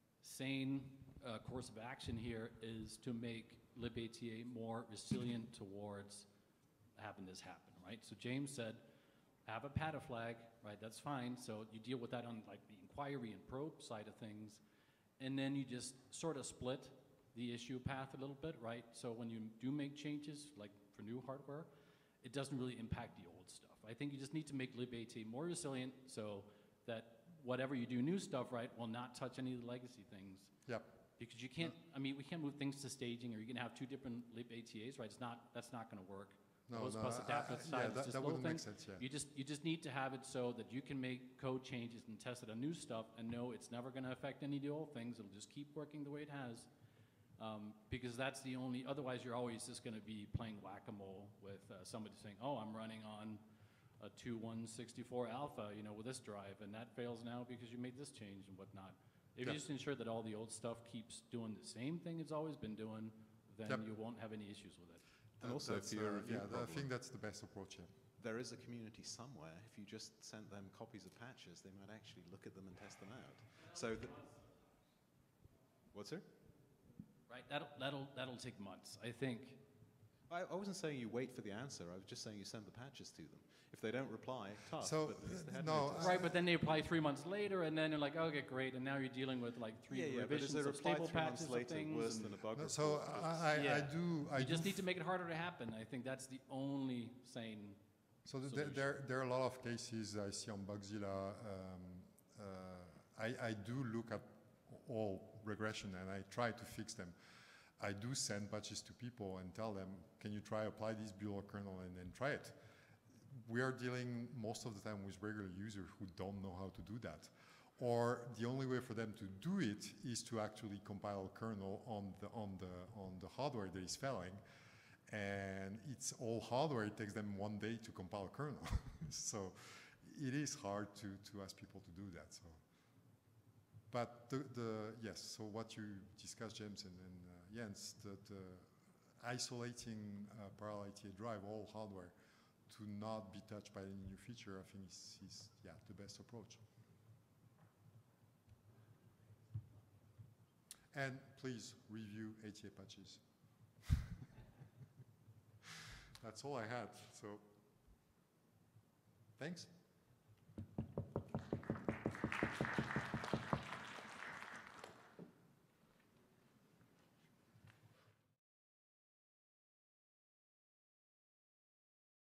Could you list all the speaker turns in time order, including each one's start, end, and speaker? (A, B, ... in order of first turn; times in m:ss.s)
0:00.2-0:06.3 A
0:07.0-0:08.8 A
0:09.4-0:14.6 A
0:15.2-0:21.7 A
0:22.2-0:30.5 A
0:30.7-0:30.9 B
0:31.2-0:46.7 A
0:36.7-0:39.0 B
0:47.4-0:53.4 A
0:54.0-1:05.0 A
1:05.4-1:07.9 B
1:05.4-1:06.9 C
1:08.2-1:14.4 C
1:15.9-1:16.2 C
1:17.3-1:19.6 A
1:20.3-1:26.3 C
1:24.8-1:26.4 B
1:26.0-1:32.4 A
1:29.9-1:33.6 C
1:32.5-1:34.9 B
1:33.5-1:37.8 A
1:38.2-1:47.2 B
1:38.4-1:39.0 A
1:47.8-1:52.6 B
1:53.3-2:04.4 B
2:05.1-2:12.6 B
2:13.9-2:22.1 B
2:22.7-2:26.6 B
2:30.9-2:33.8 B
2:36.2-2:37.4 B
2:39.4-2:39.7 B